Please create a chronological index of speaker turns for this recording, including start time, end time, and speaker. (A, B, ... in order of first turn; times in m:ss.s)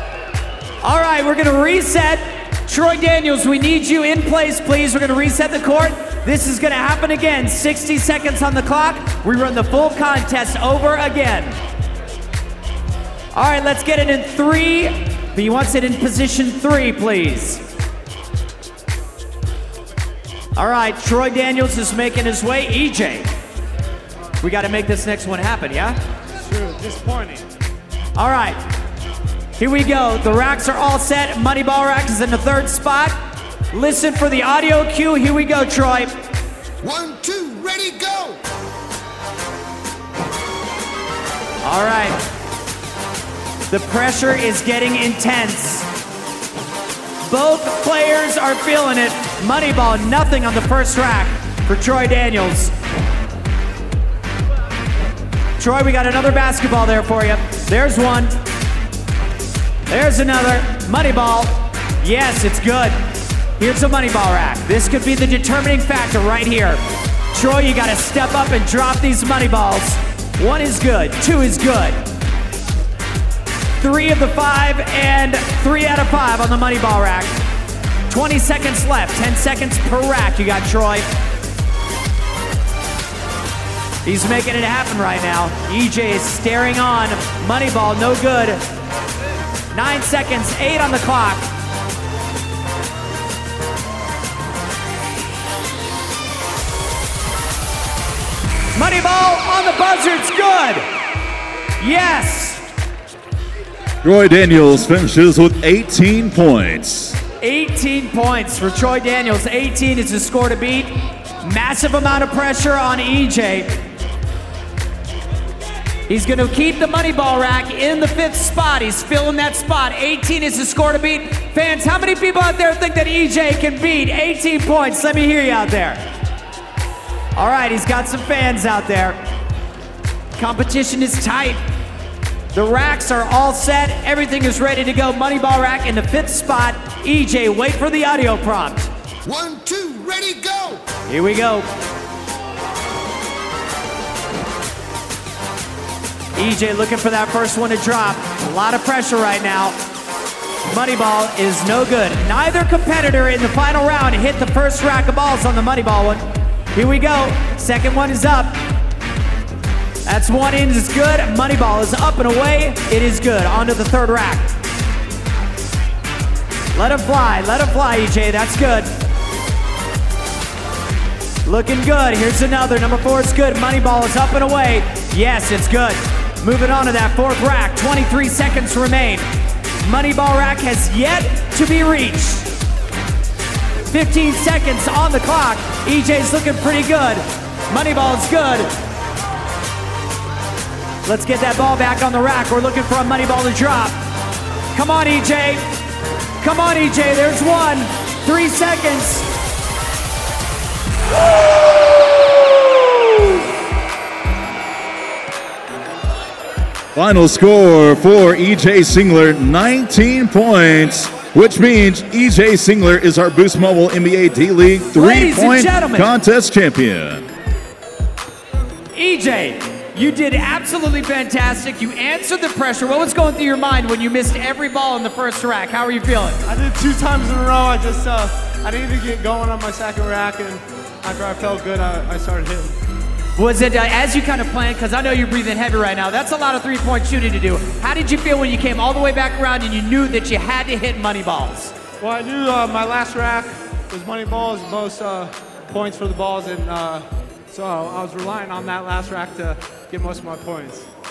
0:00.8-0:11.5 A
0:13.3-0:17.6 A
0:20.6-0:23.3 A
0:24.4-0:26.0 A
0:26.4-0:27.4 B
0:28.2-0:28.6 A
0:29.6-0:33.2 A
0:33.7-0:36.1 A
0:36.8-0:38.4 C
0:41.6-0:42.2 A
0:43.7-0:45.9 A
0:47.2-0:52.7 A
0:55.6-0:58.3 A
0:59.9-1:03.0 A
1:03.6-1:06.8 A
1:07.3-1:12.0 A
1:13.8-1:17.3 A
1:18.1-1:21.0 A
1:24.0-1:28.6 A
1:29.7-1:31.4 A
1:38.7-1:40.8 A
1:41.8-1:42.6 A
1:44.0-1:47.2 D
1:47.4-1:53.8 A
1:56.1-2:06.0 A
2:07.4-2:09.2 A
2:10.4-2:11.6 A
2:12.5-2:18.9 A
2:19.2-2:20.8 C
2:21.1-2:21.7 A
2:26.4-2:29.8 A
2:30.7-2:38.6 A
2:40.0-2:44.5 A
2:46.7-2:48.9 A
2:51.4-2:59.3 A
2:59.8-3:02.5 A
3:03.9-3:08.7 A
3:11.0-3:13.9 A
3:14.7-3:15.7 A
3:16.4-3:19.3 A
3:26.9-3:37.2 D
3:34.9-3:36.1 A
3:38.9-3:46.4 A
3:46.4-3:52.7 B
3:53.4-4:01.7 A
4:02.0-4:10.9 B